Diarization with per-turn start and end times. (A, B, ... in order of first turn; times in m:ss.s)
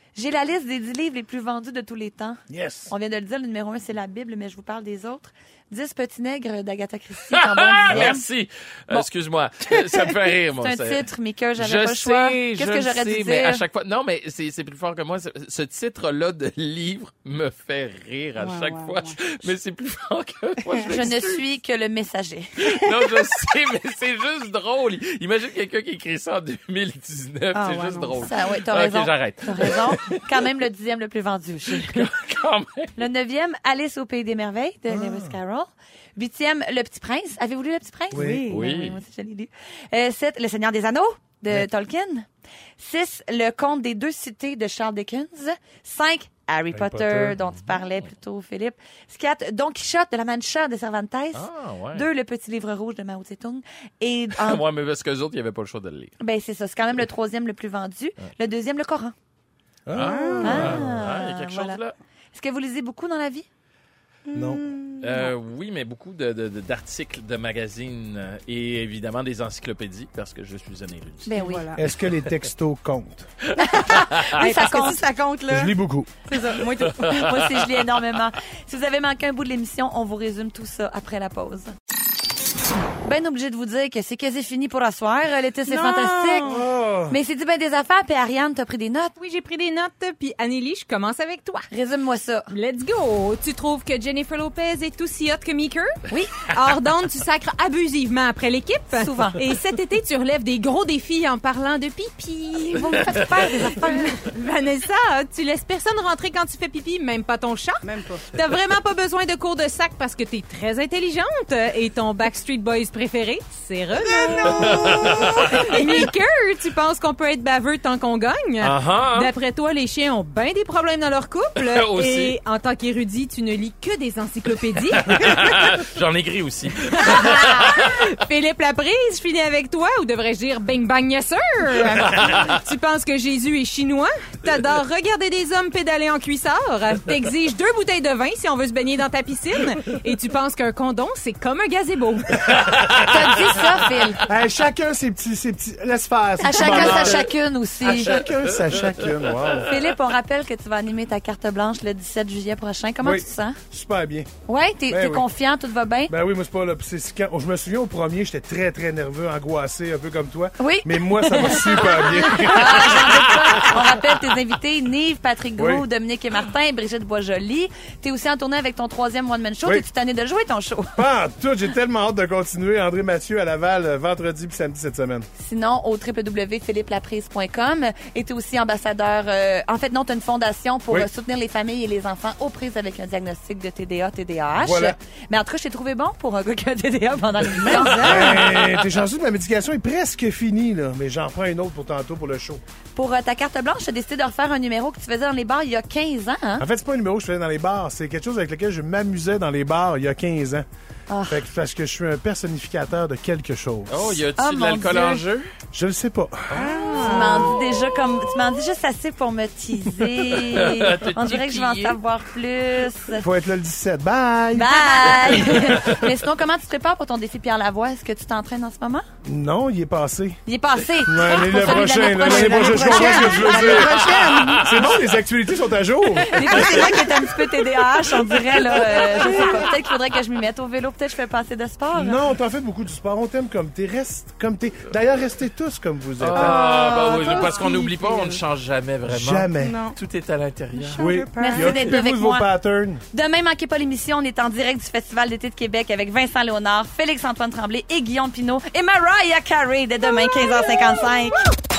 0:00.2-0:08.2 A
0:02.5-0:02.9 B
0:07.3-0:11.0 C
0:10.6-0:13.6 A
0:11.6-0:21.4 C
0:18.4-0:19.4 D
0:20.7-0:21.0 D
0:20.9-0:22.8 A
0:22.6-0:30.2 C
0:27.5-0:28.3 D
0:28.2-0:32.1 A
0:31.8-0:33.0 C
0:33.0-0:42.3 A
0:34.9-0:35.4 B
0:38.1-0:38.5 B
0:38.5-0:39.0 C
0:42.8-0:54.6 A
0:46.7-0:47.4 B
0:51.3-0:52.1 C
0:54.4-0:56.1 C
0:56.2-0:59.2 A
0:59.9-1:00.9 B
0:59.9-1:01.9 C
1:00.0-1:00.8 D
1:00.4-1:01.8 A
1:02.3-1:03.5 A
1:04.3-1:05.3 D
1:04.3-1:04.6 B
1:05.0-1:11.3 C
1:11.3-1:11.7 A
1:11.3-1:11.8 D
1:11.8-1:13.3 B
1:13.6-1:15.7 D
1:13.6-1:15.0 A
1:15.5-1:16.1 B
1:16.3-1:17.3 D
1:16.8-1:17.4 C
1:17.0-1:21.8 A
1:23.0-1:26.5 A
1:25.7-1:26.6 D
1:26.4-1:27.2 B
1:27.1-1:29.2 A
1:29.2-1:31.7 E
1:31.7-1:32.5 A
1:32.5-2:05.6 E
1:36.1-1:36.4 A
1:38.9-1:39.4 A
1:42.7-1:44.2 A
1:47.8-1:48.3 D
1:54.2-1:56.0 D
1:54.4-1:55.8 C
1:58.6-1:59.3 C
2:01.6-2:02.4 C
2:05.0-2:08.1 C
2:06.8-2:22.7 E
2:12.1-2:12.5 C
2:22.7-2:23.2 C
2:23.0-2:24.3 A
2:24.3-2:29.8 B
2:26.4-2:28.2 A
2:28.3-2:29.7 C
2:29.7-2:33.6 A
2:33.0-2:34.3 B
2:34.5-2:36.1 A
2:34.9-2:35.3 B
2:36.1-2:43.8 B
2:40.6-2:51.0 A
2:45.6-2:45.9 B
2:51.0-2:55.3 B
2:55.4-3:08.5 A
3:04.6-3:05.0 B
3:07.5-3:08.5 D
3:08.0-3:12.6 B
3:13.0-3:16.7 A
3:16.6-3:20.7 B
3:21.1-3:21.4 A
3:21.3-3:24.2 B
3:23.9-3:25.5 C
3:24.4-3:25.2 A
3:25.7-3:26.8 B
3:26.5-3:27.5 C
3:26.7-3:27.5 D
3:27.0-3:33.2 A
3:30.3-3:32.0 C
3:33.2-3:36.1 B
3:34.5-3:39.0 A
3:39.2-3:40.4 B
3:40.5-3:44.1 A
3:41.0-3:47.0 B
3:41.5-3:44.9 D
3:44.2-3:44.7 C
3:46.2-3:52.2 A
3:46.4-3:47.1 D
3:48.5-3:49.6 B
3:51.9-3:56.6 B
3:56.2-4:01.2 C
3:56.4-3:57.5 A
3:56.5-3:58.4 D
3:59.1-3:59.8 B
3:59.6-4:00.0 D
4:00.7-4:01.8 D
4:01.0-4:03.0 B
4:01.4-4:02.5 A
4:03.1-4:11.5 A